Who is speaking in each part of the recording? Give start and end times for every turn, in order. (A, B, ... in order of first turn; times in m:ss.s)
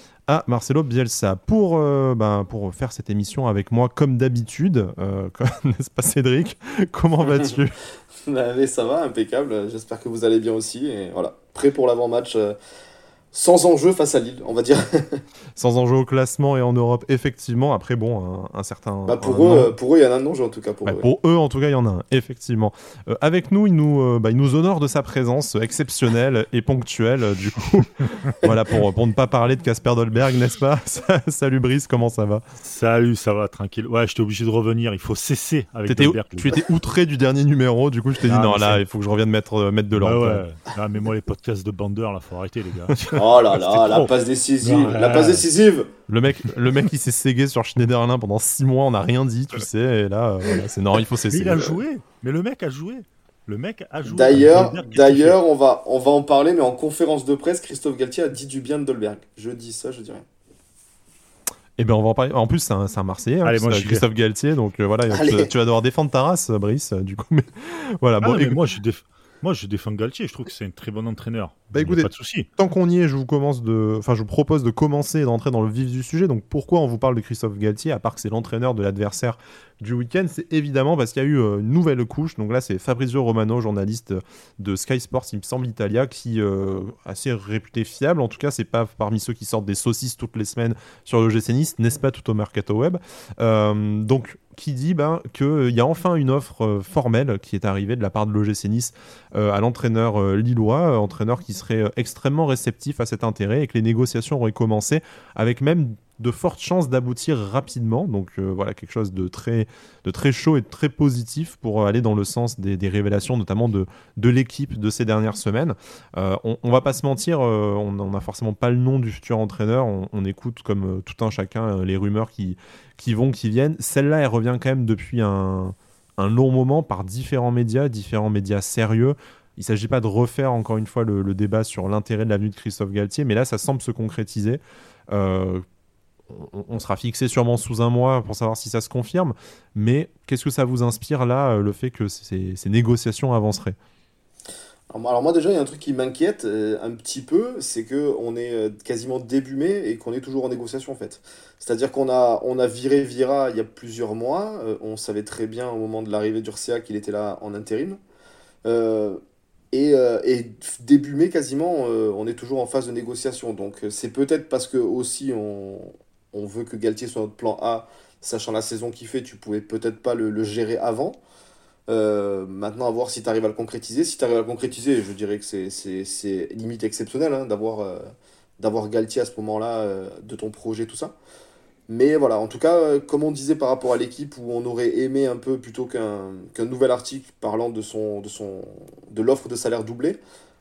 0:00.3-0:07.8 A
0:08.2-0:12.6 B
0:13.3-0:15.2 B
0:15.6-0:19.7 A
0:19.0-0:21.0 B
0:20.8-0:32.4 A
0:32.6-0:36.6 C
0:35.9-0:40.4 A
0:38.2-0:38.8 C
0:39.9-0:45.5 C
0:43.1-0:45.9 B
0:46.1-0:51.8 A
0:51.3-0:55.4 C
0:54.0-1:00.2 B
1:01.8-1:08.6 A
1:03.4-1:04.0 C
1:05.1-1:05.5 B
1:08.2-1:12.5 C
1:11.7-2:15.6 A
2:16.3-2:23.8 A
2:24.9-2:38.0 B
2:38.6-2:39.2 B
2:39.7-2:51.2 B
2:51.9-3:01.1 B
3:01.9-3:10.2 B